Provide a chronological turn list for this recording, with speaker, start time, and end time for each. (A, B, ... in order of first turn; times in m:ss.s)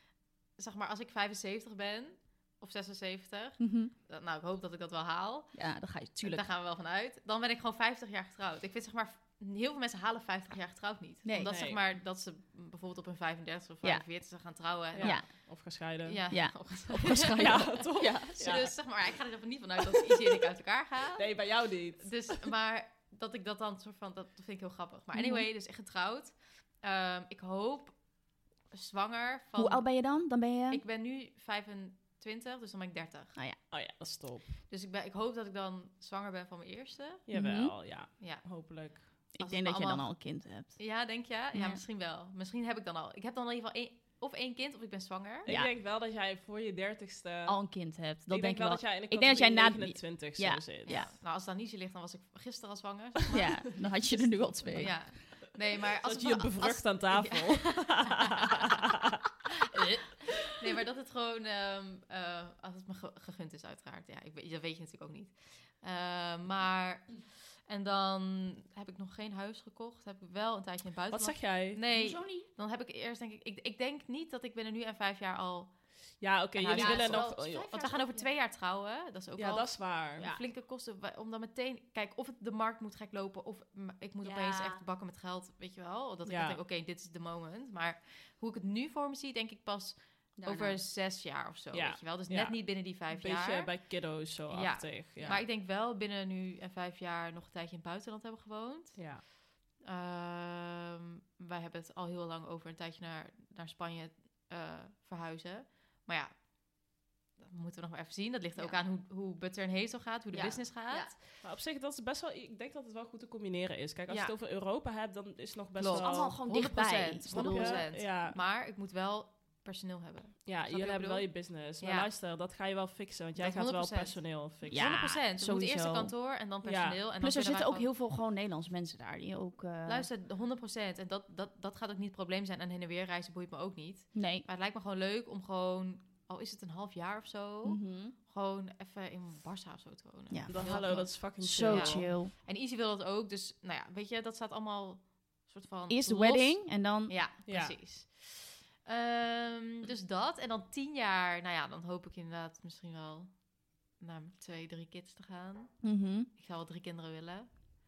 0:00.5-0:15.4 A
0:03.6-0:03.9 B
0:05.5-0:06.4 B
0:11.2-0:11.6 B
0:11.4-0:11.8 C
0:14.9-0:16.2 C
0:15.0-0:15.3 B
0:16.1-0:17.8 A
0:16.3-0:18.7 B
0:17.2-0:18.7 C
0:18.4-0:30.1 A
0:19.9-0:20.5 C
0:21.2-0:22.4 C
0:25.1-0:25.5 B
0:29.6-0:30.8 B
0:30.7-0:33.4 A
0:33.7-0:34.5 C
0:34.7-0:37.2 A
0:37.3-0:39.1 C
0:37.3-0:37.8 B
0:38.2-0:40.1 A
0:39.4-0:40.8 B
0:40.8-0:45.5 A
0:41.5-0:41.8 B
0:45.4-0:47.6 C
0:45.5-0:45.7 B
0:47.5-0:51.1 B
0:48.3-0:51.1 C
0:50.9-0:53.8 A
0:53.3-0:55.0 B
0:54.1-0:55.3 C
0:54.7-0:58.5 A
0:56.0-0:59.2 C
0:59.7-1:15.8 A
1:11.1-1:11.8 C
1:11.9-1:12.5 B
1:16.2-1:17.7 C
1:16.6-1:33.8 A
1:16.7-1:18.3 B
1:19.4-1:20.3 C
1:24.2-1:24.8 B
1:26.2-1:26.6 C
1:30.4-1:30.8 B
1:31.7-1:35.4 C
1:34.5-1:39.2 A
1:35.2-1:35.4 B
1:39.0-1:39.2 C
1:39.8-1:46.4 A
1:47.4-1:51.3 A
1:48.6-1:48.8 B
1:50.3-1:51.2 B
1:51.4-1:56.3 C
1:55.8-2:02.1 A
1:55.9-1:57.9 B
1:57.3-1:58.4 C
2:00.4-2:05.0 C
2:03.4-2:07.9 A
2:04.7-2:06.1 B
2:06.6-2:07.0 C
2:07.2-2:10.1 B
2:09.9-2:37.7 A
2:14.1-2:14.5 B
2:17.6-2:18.2 B
2:20.3-2:22.3 B
2:20.5-2:22.1 C
2:25.9-2:27.1 B
2:27.5-2:27.8 C
2:35.8-2:36.3 B